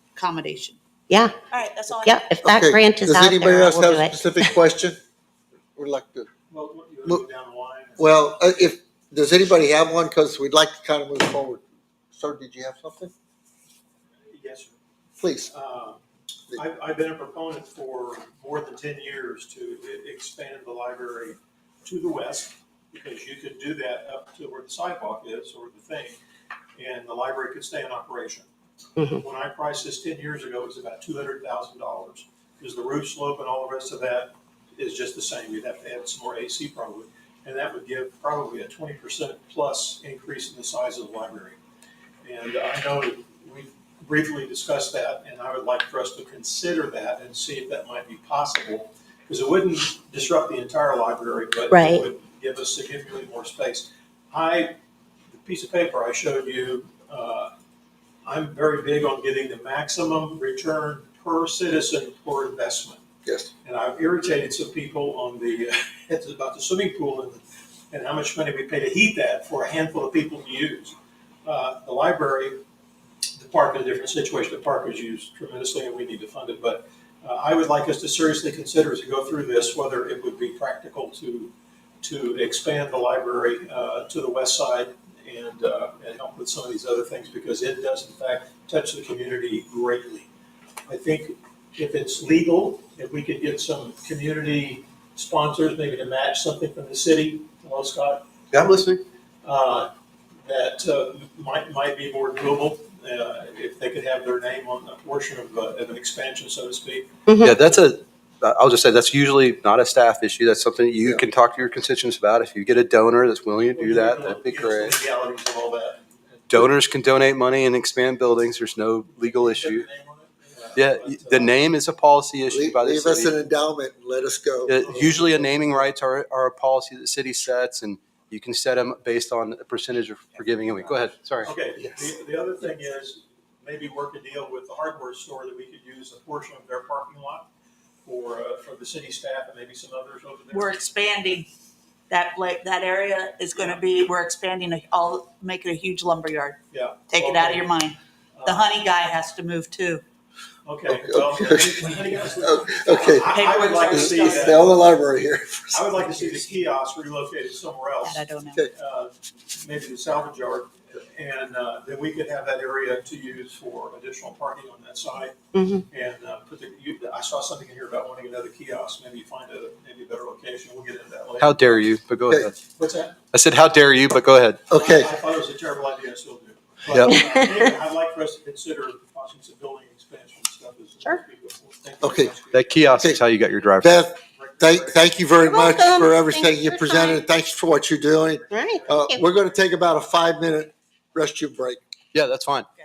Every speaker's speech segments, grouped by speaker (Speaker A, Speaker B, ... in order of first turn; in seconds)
Speaker A: 0.1-0.8, 1.5-2.2, 140.5-141.5, 142.1-150.0, 153.3-154.6, 158.0-158.6
Speaker B: 2.0-4.5, 29.0-29.2, 51.7-52.0, 107.3-107.6, 165.5-165.8, 185.4-187.2, 188.5-189.2
Speaker C: 2.4-5.0, 5.8-6.3, 8.0-11.6, 12.1-13.1, 15.2-15.5, 122.5-124.8, 150.9-151.5, 152.4-153.3, 153.9-155.9, 174.7-175.1, 182.0-182.3, 183.8-191.8
Speaker D: 6.5-8.4, 14.3-14.8, 15.5-16.0, 16.5-26.2, 26.8-28.5, 29.2-41.6, 42.2-54.7, 55.3-57.5, 58.2-63.0, 63.6-72.6, 73.3-90.3, 90.8-98.3, 99.4-99.9, 100.4-107.1, 113.7-116.7, 119.1-121.6, 124.8-125.8, 131.4-137.5, 138.0-140.7, 143.5-143.8, 146.7-147.8, 148.3-148.7, 150.6-154.7, 155.7-165.3, 165.9-171.9, 172.6-173.2, 174.7-183.0, 184.1-185.1
Speaker E: 98.5-99.0, 107.4-115.0, 116.5-119.9, 120.7-123.3, 124.7-131.5, 171.4-172.6, 173.3-174.7, 176.9-177.2, 182.5-184.0, 192.1-192.7